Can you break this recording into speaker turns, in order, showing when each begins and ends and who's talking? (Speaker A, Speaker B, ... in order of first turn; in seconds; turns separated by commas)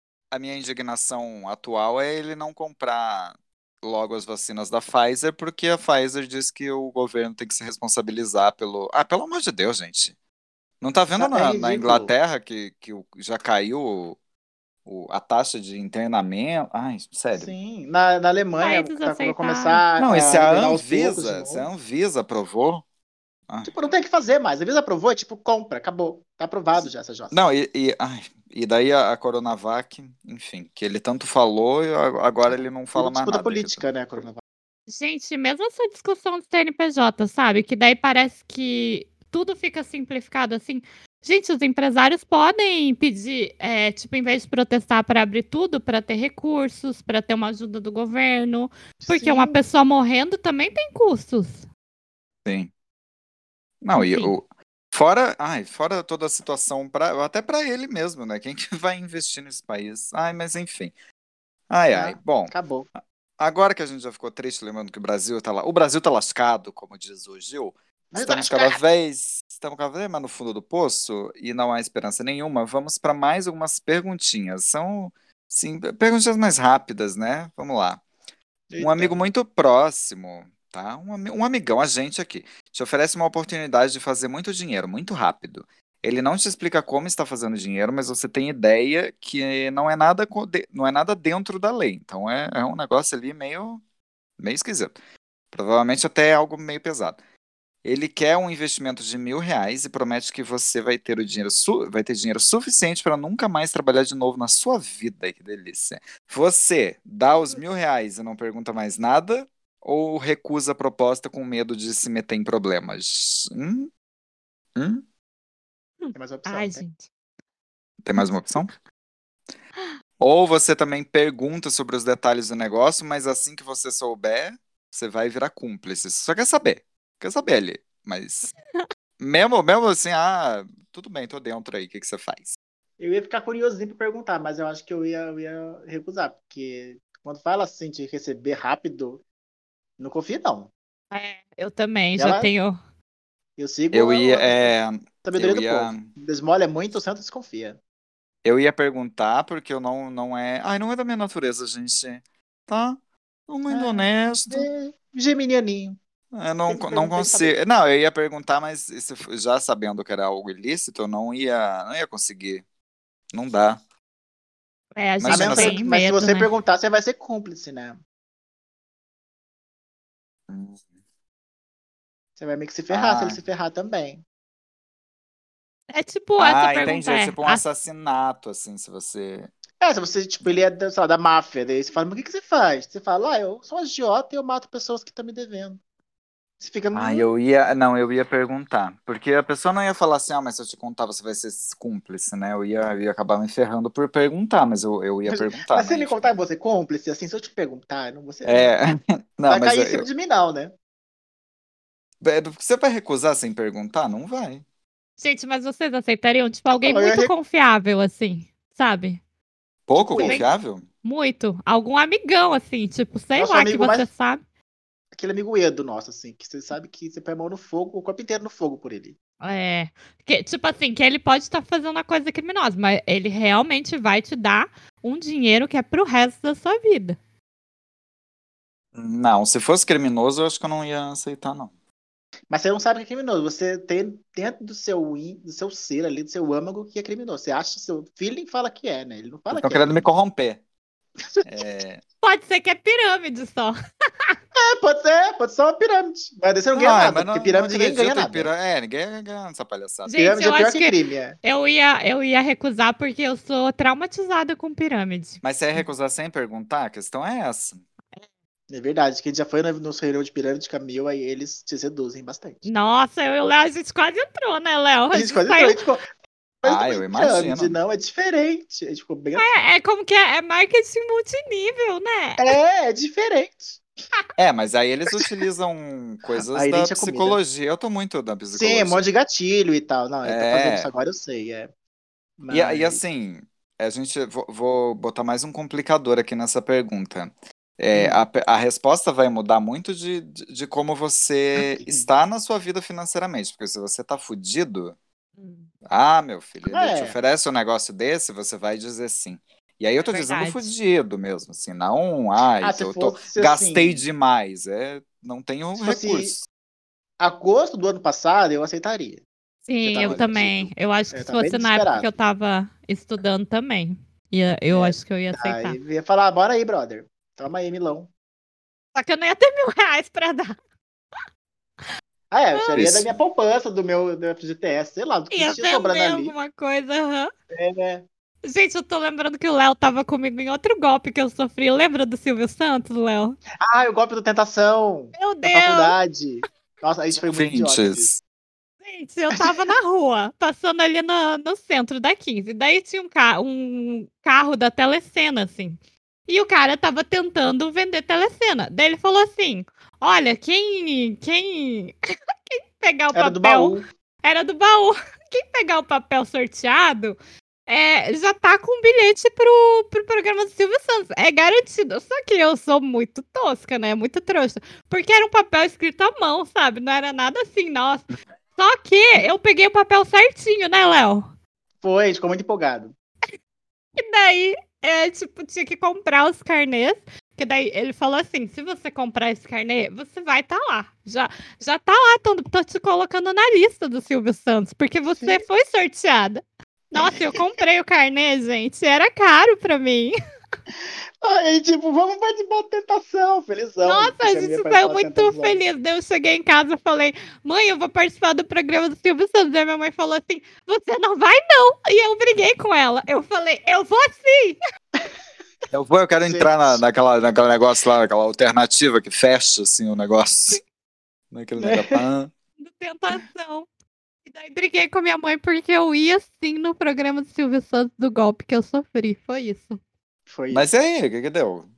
Speaker A: 0.3-10.1, Speaker A: 10.8-14.2, Speaker B: 11.2-12.1, Speaker A: 14.8-17.5, Speaker B: 17.3-21.7, Speaker C: 18.6-19.8, Speaker A: 20.0-22.8, Speaker B: 23.6-27.4, Speaker A: 27.3-33.9, Speaker B: 32.5-34.4, Speaker C: 34.9-51.6, Speaker B: 49.0-49.6, Speaker A: 52.4-52.7, Speaker A: 53.8-60.9, Speaker C: 54.0-54.4, Speaker A: 61.7-62.5, Speaker B: 61.9-62.9, Speaker A: 63.4-78.0, Speaker B: 68.1-68.8, Speaker B: 78.7-79.3, Speaker A: 78.8-93.8, Speaker A: 94.4-95.0, Speaker A: 95.5-97.2, Speaker A: 97.8-113.9, Speaker A: 114.7-115.0, Speaker C: 116.0-117.0, Speaker B: 116.1-116.8, Speaker A: 118.0-118.7, Speaker A: 120.2-128.5, Speaker A: 129.2-132.6, Speaker B: 133.0-139.2, Speaker B: 140.0-140.7, Speaker C: 141.1-142.8, Speaker B: 142.2-142.5, Speaker B: 143.6-144.7, Speaker A: 143.9-146.1, Speaker B: 145.2-147.8, Speaker A: 148.4-154.7, Speaker B: 153.7-155.9, Speaker A: 156.3-162.6, Speaker B: 156.7-157.6, Speaker A: 163.3-163.8, Speaker C: 165.0-166.5, Speaker A: 165.2-165.8, Speaker B: 165.3-168.0, Speaker A: 170.5-170.8, Speaker B: 172.4-174.2, Speaker A: 172.9-173.4, Speaker C: 175.9-177.6, Speaker A: 176.4-179.5, Speaker B: 179.8-185.8, Speaker B: 186.6-187.2, Speaker A: 186.9-196.3, Speaker B: 195.3-198.7, Speaker A: 198.4-200.1, Speaker B: 199.5-200.7, Speaker A: 202.2-204.6, Speaker C: 205.2-209.2, Speaker B: 206.7-207.3, Speaker A: 209.9-210.8, Speaker B: 210.0-210.4, Speaker C: 210.2-210.5, Speaker C: 211.0-214.4, Speaker B: 213.3-214.1, Speaker B: 215.1-219.1, Speaker C: 219.4-227.2, Speaker A: 228.9-231.7, Speaker B: 232.5-240.0, Speaker A: 239.5-240.6, Speaker B: 241.2-241.7, Speaker A: 241.4-242.0, Speaker C: 242.2-243.8, Speaker B: 244.5-248.5, Speaker A: 246.7-250.1, Speaker C: 250.1-250.9, Speaker B: 250.2-251.4, Speaker C: 251.4-255.4, Speaker A: 255.4-257.8, Speaker B: 258.7-262.6, Speaker C: 262.6-265.8, Speaker B: 265.1-266.0, Speaker B: 266.6-269.5, Speaker A: 266.6-267.8, Speaker C: 269.4-272.5, Speaker B: 272.4-273.8, Speaker A: 274.4-279.0, Speaker B: 276.5-277.4, Speaker B: 278.5-281.7, Speaker A: 280.2-280.9, Speaker B: 282.4-283.0, Speaker A: 282.5-294.9, Speaker B: 287.9-288.2, Speaker B: 291.6-292.1, Speaker C: 295.4-295.7, Speaker A: 295.9-306.4, Speaker B: 296.7-297.1, Speaker C: 300.0-300.7, Speaker B: 302.6-304.0, Speaker B: 305.8-306.4, Speaker B: 307.2-309.2, Speaker C: 309.7-315.8, Speaker A: 309.8-310.7, Speaker B: 310.0-310.3, Speaker B: 311.1-312.1, Speaker B: 314.7-318.1, Speaker C: 318.9-320.6, Speaker B: 322.3-326.3, Speaker C: 322.5-322.8, Speaker A: 322.7-323.2, Speaker C: 325.3-327.3, Speaker B: 327.5-328.1, Speaker C: 328.4-333.4, Speaker B: 333.6-338.1, Speaker C: 335.1-335.9, Speaker A: 337.2-338.2, Speaker C: 338.8-351.9, Speaker C: 352.5-357.2, Speaker B: 353.1-353.9, Speaker C: 357.7-371.3, Speaker B: 371.8-372.9, Speaker C: 374.0-390.1, Speaker B: 385.2-385.4, Speaker B: 386.9-387.6, Speaker B: 391.2-395.6, Speaker C: 393.8-404.6, Speaker A: 405.7-410.6, Speaker B: 406.2-406.8, Speaker A: 411.3-412.3, Speaker B: 411.6-412.0, Speaker C: 412.6-413.7, Speaker C: 414.3-419.8, Speaker B: 420.3-420.6, Speaker A: 420.5-421.7